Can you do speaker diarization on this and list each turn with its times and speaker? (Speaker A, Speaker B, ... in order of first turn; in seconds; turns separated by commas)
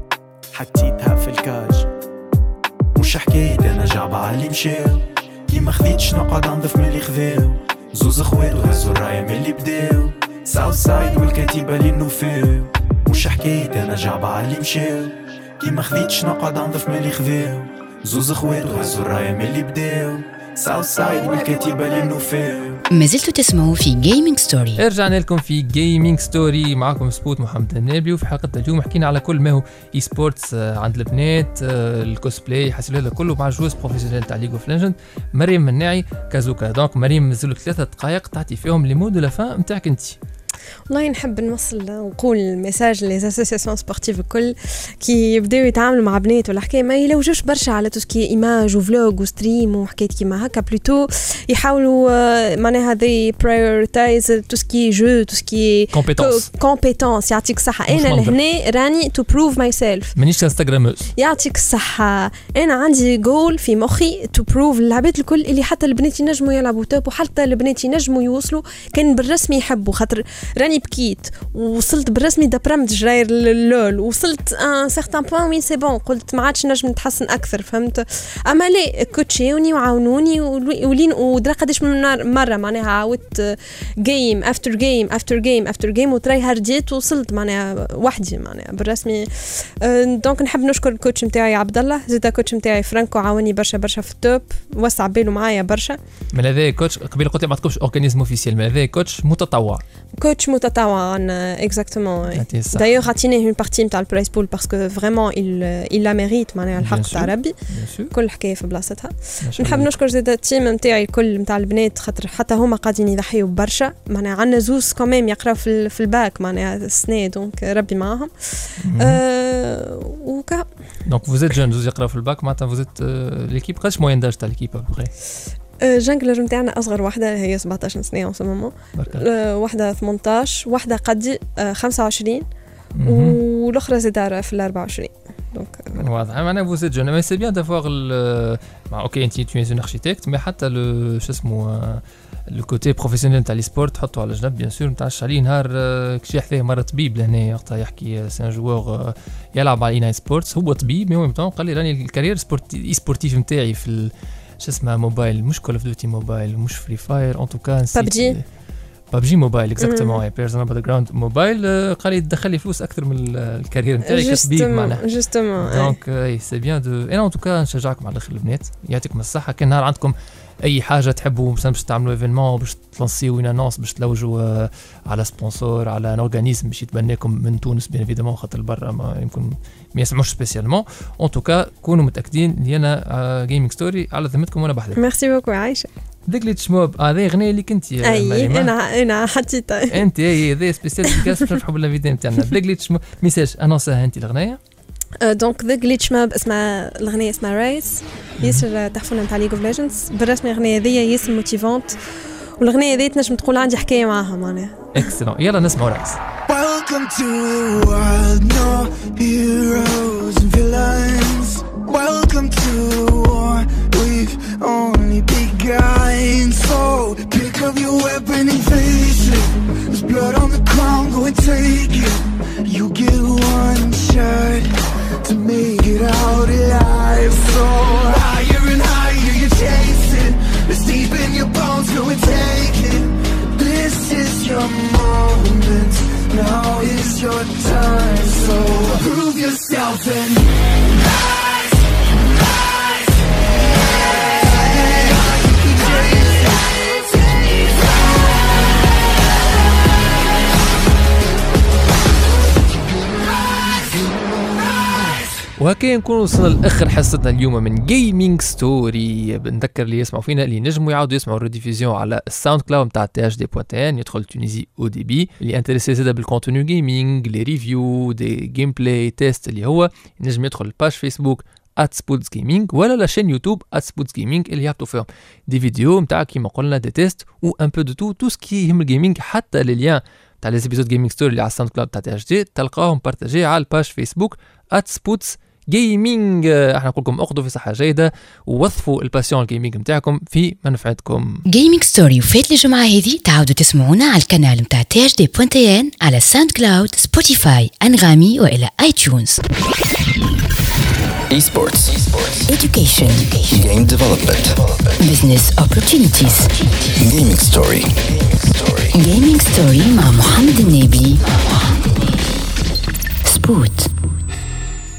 Speaker A: 0.5-1.9, Speaker A: 3.0-22.8, Speaker B: 22.9-24.8, Speaker C: 24.8-40.2, Speaker D: 40.9-60.1, Speaker C: 55.9-56.5, Speaker C: 57.9-58.4, Speaker C: 60.2-61.1, Speaker D: 61.2-96.0, Speaker C: 96.3-99.8, Speaker D: 100.2-107.6, Speaker C: 102.3-102.9, Speaker C: 106.8-108.1, Speaker D: 108.1-120.7, Speaker C: 109.4-109.9, Speaker C: 118.8-119.2, Speaker C: 121.0-125.1, Speaker D: 125.8-132.5, Speaker C: 129.0-129.2, Speaker C: 133.0-133.4, Speaker D: 133.0-136.1, Speaker C: 136.0-158.4, Speaker D: 157.9-158.4, Speaker C: 159.1-165.1, Speaker D: 159.8-160.2, Speaker D: 164.1-166.0, Speaker C: 165.6-185.0, Speaker D: 185.0-185.9, Speaker C: 186.3-188.7, Speaker D: 188.0-190.0, Speaker C: 189.9-194.6, Speaker D: 195.2-202.0, Speaker C: 198.4-198.7, Speaker D: 202.6-205.1, Speaker C: 204.9-206.2, Speaker E: 206.5-224.7, Speaker E: 225.2-240.5, Speaker E: 244.3-247.8, Speaker E: 253.6-254.8, Speaker C: 255.6-291.4, Speaker B: 291.5-299.4, Speaker F: 301.3-302.5, Speaker B: 302.5-303.4, Speaker F: 303.5-304.8, Speaker B: 305.0-306.5, Speaker F: 306.8-308.9, Speaker B: 308.9-311.3, Speaker B: 313.2-313.9